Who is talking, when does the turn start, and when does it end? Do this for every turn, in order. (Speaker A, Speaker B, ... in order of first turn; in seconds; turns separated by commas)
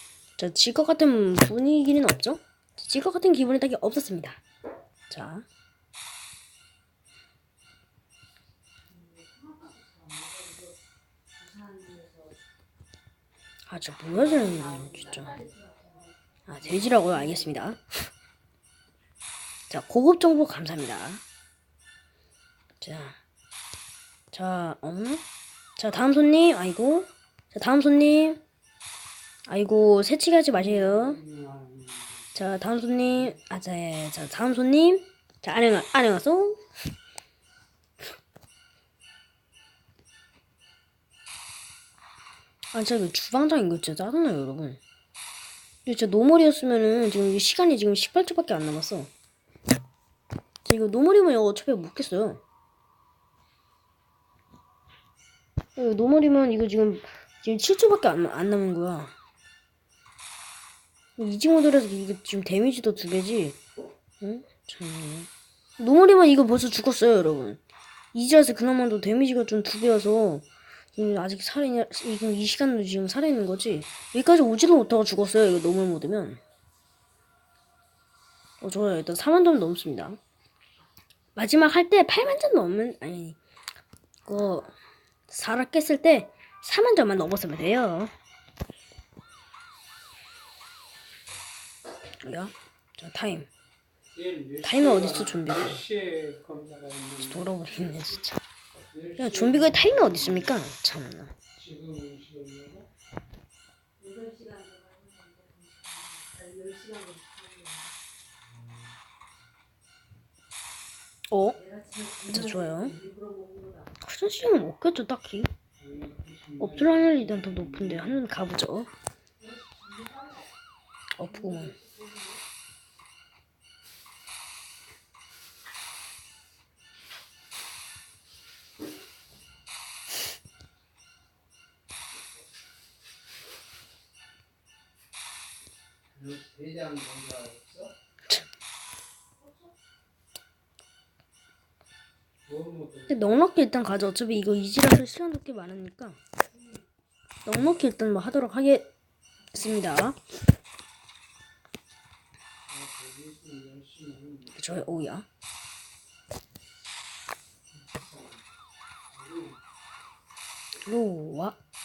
Speaker A: 0.4-4.4, Speaker A: 5.1-5.5, Speaker B: 9.0-10.7, Speaker B: 11.4-12.3, Speaker A: 13.7-15.5, Speaker B: 14.8-15.9, Speaker A: 16.5-17.8, Speaker A: 19.7-21.2, Speaker A: 22.8-23.2, Speaker A: 24.3-25.2, Speaker A: 25.8-28.4, Speaker A: 29.5-31.2, Speaker C: 31.1-32.2, Speaker A: 32.3-36.6, Speaker A: 42.7-44.8, Speaker A: 45.8-49.1, Speaker A: 50.6-52.4, Speaker A: 55.8-59.1, Speaker A: 61.2-63.6, Speaker A: 64.2-67.6, Speaker A: 68.1-76.4, Speaker A: 78.6-80.2, Speaker A: 81.3-83.4, Speaker A: 84.3-84.7, Speaker A: 85.3-88.1, Speaker A: 92.2-93.5, Speaker C: 94.1-97.5, Speaker A: 94.6-95.8, Speaker A: 97.2-98.4, Speaker C: 98.9-100.3, Speaker A: 99.2-101.3, Speaker C: 101.5-102.9, Speaker B: 104.0-107.9, Speaker A: 111.3-111.7, Speaker B: 111.6-113.9, Speaker A: 112.2-113.0, Speaker A: 114.0-115.5, Speaker C: 115.8-118.0, Speaker A: 116.6-118.9, Speaker B: 119.4-120.4, Speaker A: 121.2-121.8, Speaker B: 121.4-122.4, Speaker C: 136.1-137.9, Speaker C: 142.4-143.3, Speaker A: 143.1-146.2, Speaker A: 147.4-148.9, Speaker A: 149.5-150.2, Speaker C: 152.7-154.6, Speaker A: 154.5-155.3, Speaker C: 157.9-158.4, Speaker C: 159.1-159.6, Speaker A: 160.8-161.6